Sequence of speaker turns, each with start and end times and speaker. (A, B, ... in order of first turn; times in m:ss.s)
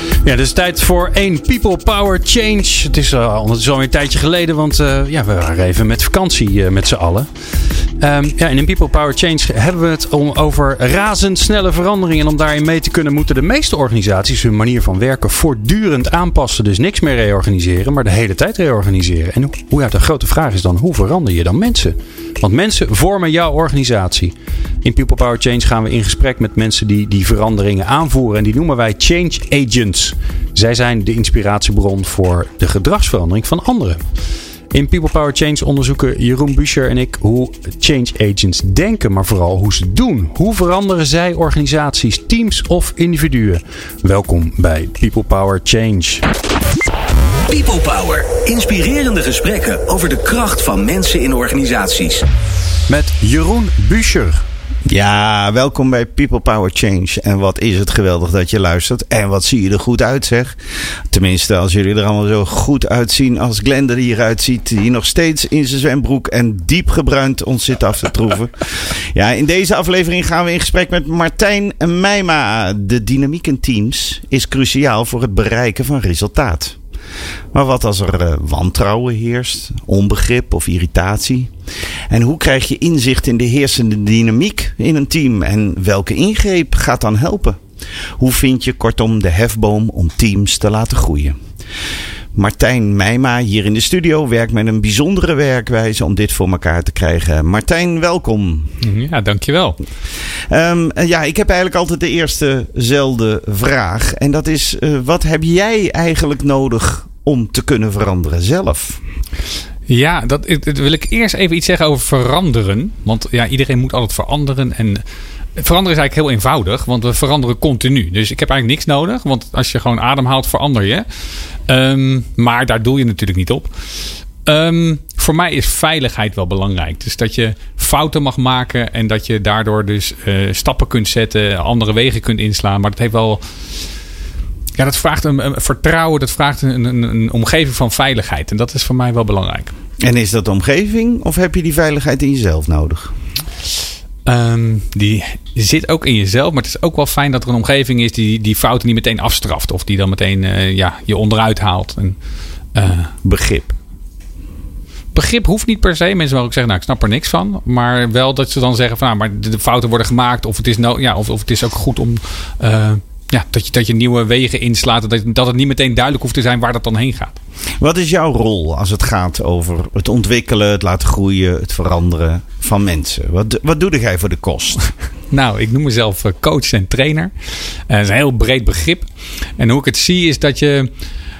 0:00.2-0:07.3 A
0:07.9-0:34.0 A
0:34.7-0:46.2 A
0:47.5-0:52.2 B
0:52.9-0:54.5 A
0:54.9-1:00.6 C
1:01.1-1:16.8 C
1:17.5-1:21.5 C
1:22.1-1:27.6 C
1:28.2-1:31.4 C
1:32.4-1:38.7 C
1:38.8-1:39.8 D
1:40.5-1:49.0 C
1:49.9-1:55.0 D
1:55.6-2:01.1 D
2:01.7-2:03.7 D
2:04.4-2:13.6 D
2:14.8-2:19.7 D
2:20.0-2:23.2 C
2:24.2-2:32.2 D
2:32.8-2:33.1 D
2:33.2-2:33.8 C
2:35.1-2:47.4 D
2:47.8-2:54.9 C
2:55.3-3:00.9 D